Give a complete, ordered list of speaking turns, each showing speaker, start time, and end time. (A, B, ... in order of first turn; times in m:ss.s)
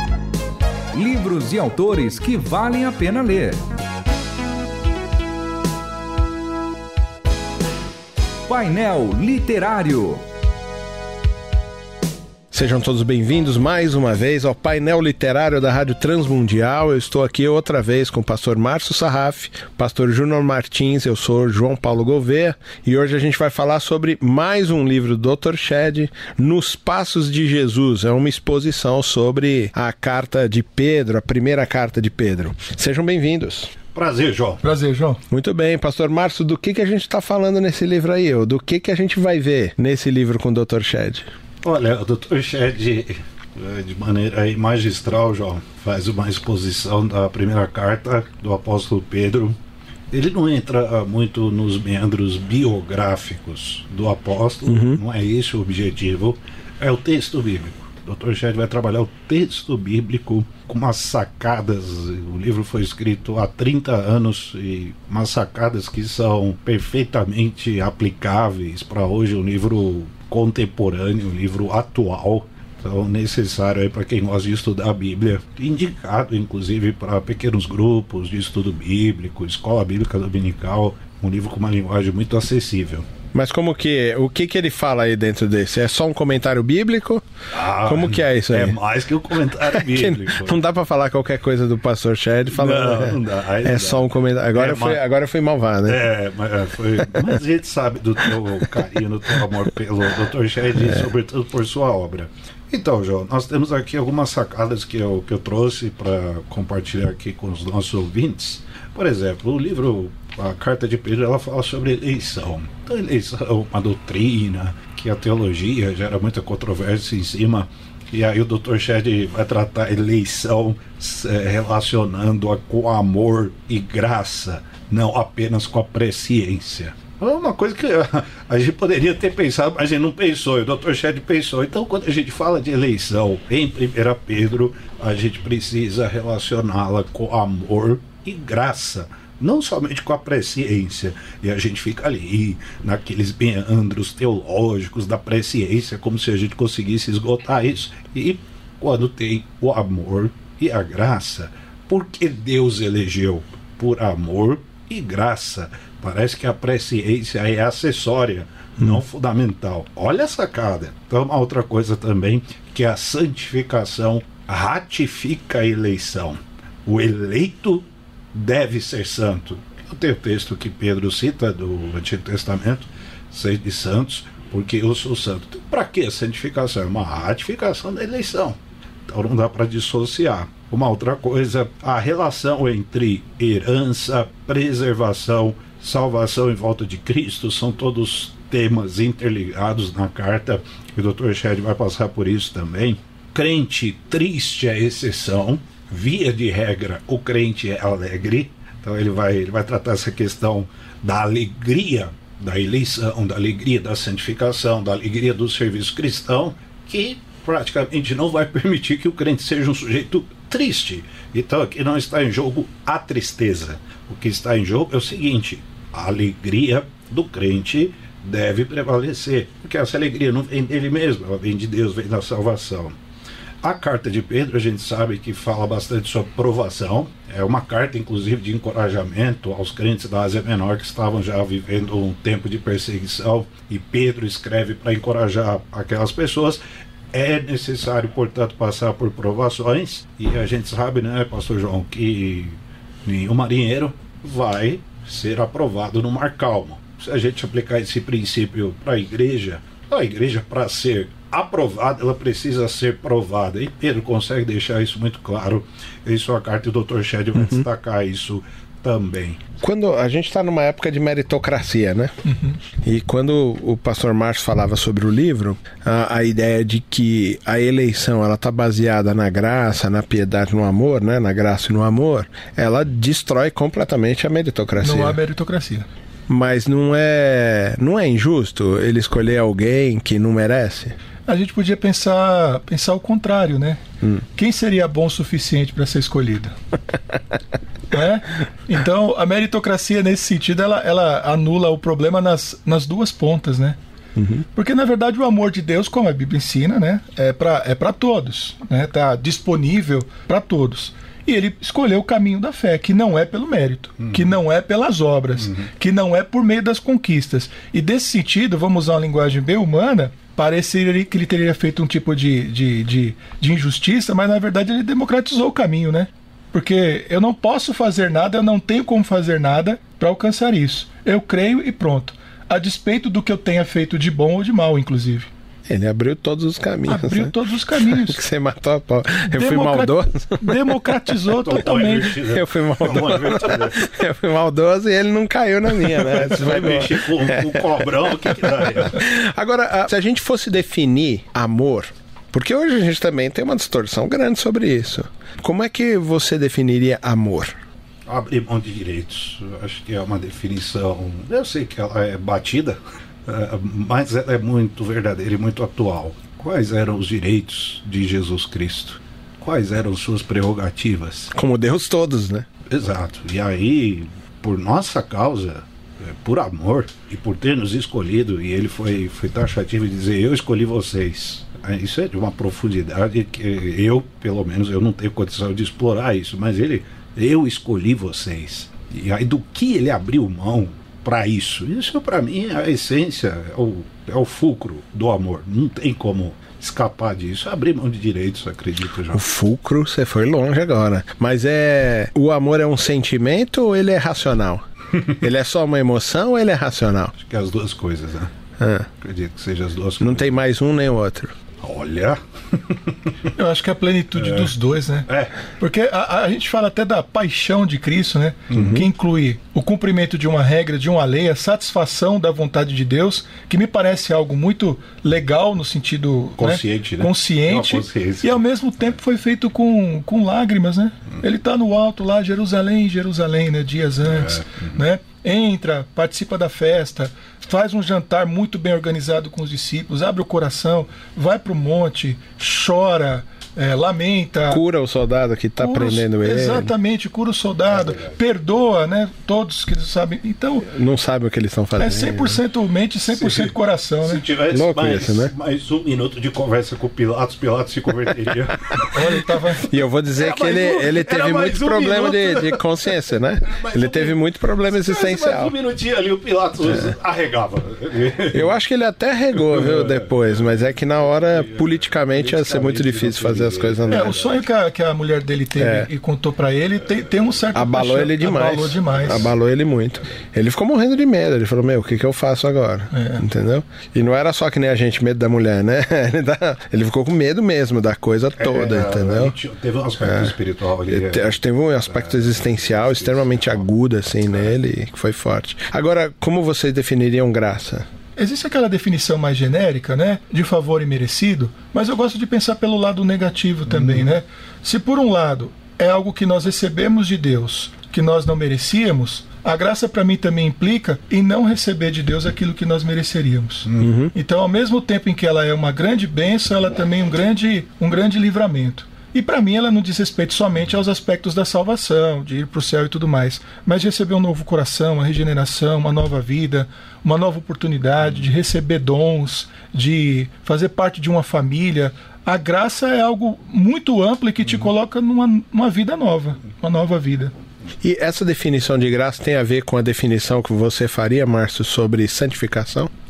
0:00.9-0:03.6 A
0:08.5-0:10.2 A
0:12.5-0:33.7 B
0:33.9-0:34.6 C
0:34.6-0:35.2 D
0:35.3-0:41.3 B
0:41.6-0:49.6 C
0:50.1-1:23.1 C
0:54.7-0:55.0 B
1:23.3-1:28.8 B
1:27.5-1:30.6 C
1:29.6-1:36.0 B
1:32.5-1:35.0 C
1:35.9-2:58.6 C
2:59.1-3:43.0 C
3:43.6-3:56.6 C
3:57.1-4:19.5 C
4:17.4-4:17.6 B
4:19.6-4:22.1 B
4:22.2-4:22.6 D
4:22.8-4:35.2 B
4:34.8-4:35.9 D
4:36.3-4:41.0 B
4:41.3-4:46.6 D
4:47.9-4:53.8 D
4:54.2-4:54.4 B
4:54.5-5:25.3 D
5:25.7-5:30.8 B
5:26.9-5:28.2 D
5:29.2-5:32.2 D
5:31.3-5:33.9 C
5:32.3-5:47.6 B
5:36.0-5:39.0 C
5:48.1-6:01.3 C
6:01.3-6:02.5 B
6:02.7-6:29.2 C
6:29.1-6:34.6 B
6:35.2-6:37.1 B
6:37.2-6:38.3 C
6:38.6-6:38.9 B
6:39.0-6:40.3 C
6:40.0-6:41.3 B
6:41.6-6:43.1 C
6:43.4-7:14.6 D
6:44.2-6:44.5 C
6:45.1-6:45.4 C
6:48.5-6:48.8 C
6:48.6-6:48.8 B
6:56.4-6:58.4 C
7:04.1-7:04.8 C
7:14.5-7:16.7 B
7:15.6-7:20.7 D
7:17.7-7:18.2 C
7:20.6-7:22.4 B
7:21.8-7:24.2 D
7:23.1-7:29.2 C
7:24.5-7:25.3 B
7:28.9-7:29.7 D
7:29.7-7:35.5 B
7:30.2-7:32.7 C
7:33.5-7:34.2 C
7:34.7-7:38.6 C
7:38.3-7:44.2 B
7:39.4-7:44.4 C
7:43.9-7:49.3 D
7:45.6-7:45.9 B
7:47.6-7:59.4 B
7:52.9-7:53.2 D
7:58.4-8:03.7 C
8:00.0-8:00.3 B
8:00.9-8:07.9 B
8:04.3-8:04.6 C
8:08.2-8:47.3 D
8:13.7-8:14.1 C
8:23.8-8:24.1 B
8:47.8-8:52.9 B